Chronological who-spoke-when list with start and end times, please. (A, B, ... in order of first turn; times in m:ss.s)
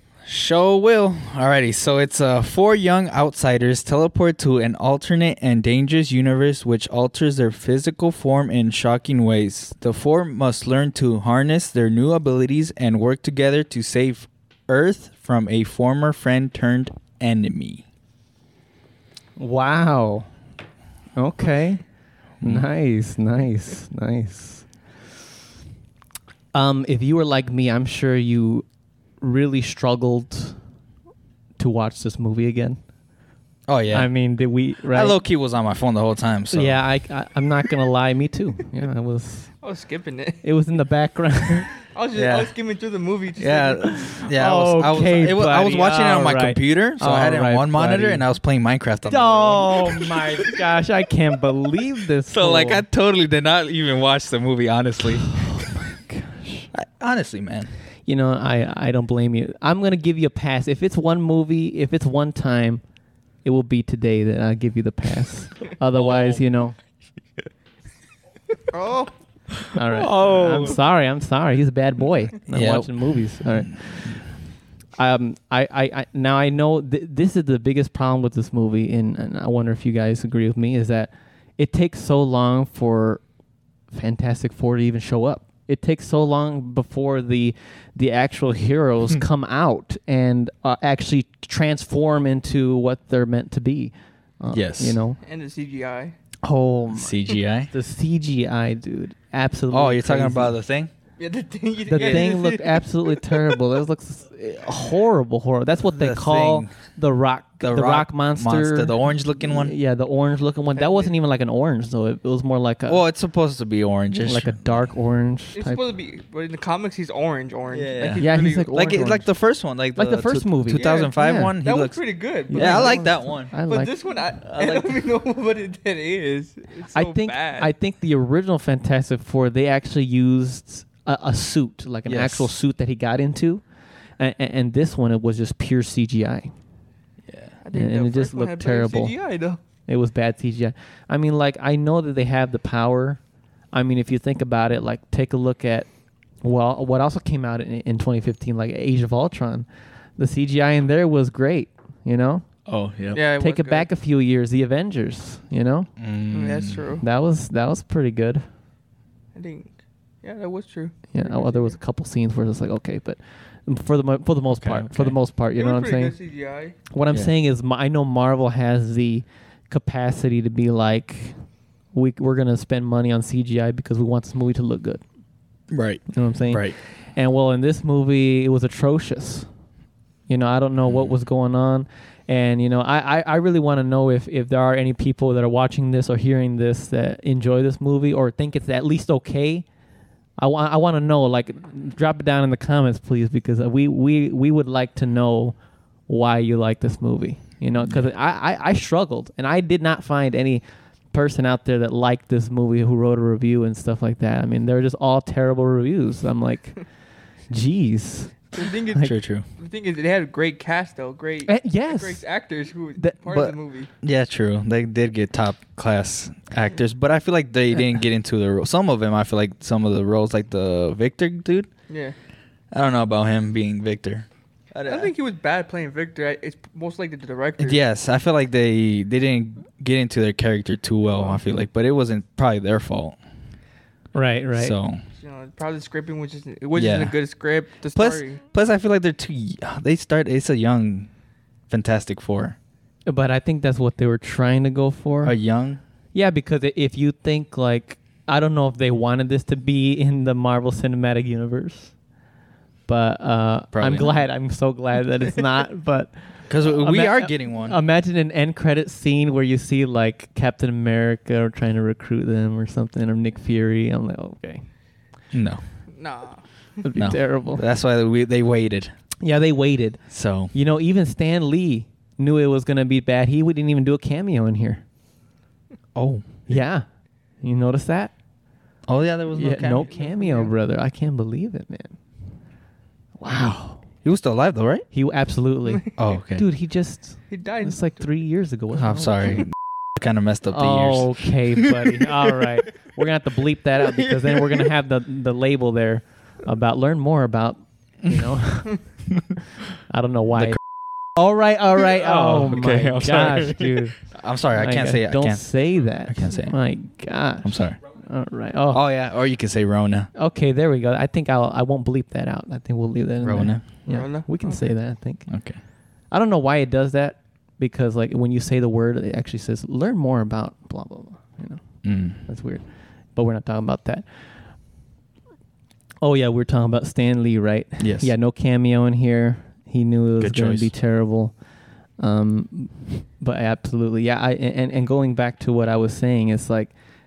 0:00.3-0:17.8 A
0:19.4-0:20.3 B
0:21.2-0:21.8 B
0:22.4-0:22.7 A
0:22.4-0:24.7 B
0:26.5-0:28.7 B
0:29.2-0:30.6 B
0:31.6-0:32.8 B
0:33.7-0:34.2 A
0:33.9-0:35.2 B
0:34.9-0:36.8 A
0:36.5-0:39.5 B
0:39.6-0:40.4 C
0:40.4-0:41.7 B
0:41.9-0:43.9 C
0:42.2-0:42.5 A
0:43.4-0:50.5 A
0:43.9-0:48.3 B
0:49.1-0:52.8 B
0:52.3-0:55.5 A
0:55.3-0:56.7 B
0:56.7-0:57.7 A
0:58.1-1:02.8 B
1:03.4-1:06.8 B
1:06.0-1:06.4 A
1:08.7-1:09.1 C
1:09.7-1:14.3 B
1:10.0-1:10.8 A
1:12.5-1:13.4 A
1:14.9-1:23.2 B
1:23.9-1:35.2 B
1:34.5-1:35.0 A
1:35.2-1:36.2 C
1:36.4-1:37.2 B
1:36.9-1:37.7 A
1:37.7-1:40.6 B
1:39.7-1:40.9 A
1:41.2-1:43.6 C
1:41.9-1:53.0 B
1:42.0-1:42.3 A
1:45.9-1:46.8 A
1:47.6-1:49.7 A
1:50.8-1:51.1 C
1:52.9-1:54.7 A
1:54.2-1:55.8 B
1:55.6-1:58.9 C
1:57.7-2:02.0 A
1:58.2-1:59.3 B
2:00.0-2:01.5 B
2:00.7-2:07.7 C
2:02.5-2:03.9 B
2:02.5-2:03.5 A
2:04.5-2:05.0 A
2:06.9-2:13.6 B
2:12.1-2:12.6 A
2:14.2-2:16.5 B
2:17.3-2:17.5 A
2:17.6-2:19.6 C
2:17.7-2:19.1 B
2:19.9-2:23.2 B
2:23.7-2:25.9 B
2:26.4-2:29.7 B
2:30.2-2:32.5 B
2:32.7-2:33.2 A
2:33.1-2:33.9 C
2:33.4-2:35.9 B
2:36.0-2:36.9 A
2:36.3-2:37.0 C
2:37.0-2:38.5 B
2:39.3-2:41.8 C
2:41.1-2:46.2 B
2:44.5-2:45.2 A
2:45.6-2:46.8 C
2:46.9-2:55.0 B
2:55.7-2:56.8 A
2:56.1-2:59.5 B
3:00.3-3:09.7 B
3:10.4-3:26.8 B
3:27.5-3:29.1 B
3:28.5-3:33.9 C
3:29.0-3:29.4 A
3:31.5-3:32.2 B
3:33.3-3:41.7 A
3:41.9-3:42.2 C
3:42.7-3:45.1 A
3:44.8-3:47.8 C
3:47.6-3:53.2 A
3:54.1-3:54.8 B
3:54.6-3:55.0 A
3:55.2-3:58.4 C
3:56.8-3:57.1 A
3:58.0-4:01.1 A
4:01.7-4:02.6 A
4:03.1-4:05.4 B
4:05.2-4:05.8 A
4:06.1-4:11.9 B
4:12.9-4:24.7 B
4:13.7-4:14.3 A
4:16.5-4:17.8 A
4:25.3-4:25.6 A
4:25.9-4:26.4 C
4:26.8-4:27.6 B
4:26.9-4:28.9 A
4:29.2-4:34.8 B
4:30.1-4:30.5 A
4:36.0-4:36.3 A
4:36.5-4:36.9 B
4:37.4-4:38.1 B
4:38.9-4:39.9 A
4:39.4-4:42.0 B
4:39.5-4:40.5 C
4:43.2-4:43.8 B
4:44.0-4:44.9 A
4:44.9-4:49.5 B
4:46.0-4:46.5 A
4:47.3-4:48.1 C
4:48.8-4:51.6 A
4:50.5-4:59.1 B
4:59.8-5:08.8 B
5:01.9-5:06.6 A
5:07.4-5:07.8 A
5:08.7-5:10.1 A
5:10.1-5:15.3 B
5:13.2-5:13.6 A
5:13.9-5:14.7 C
5:15.3-5:15.6 A
5:16.1-5:24.3 B
5:21.8-5:22.2 A
5:26.0-5:31.4 B
5:27.8-5:28.1 A
5:30.2-5:30.7 A
5:32.0-5:36.7 B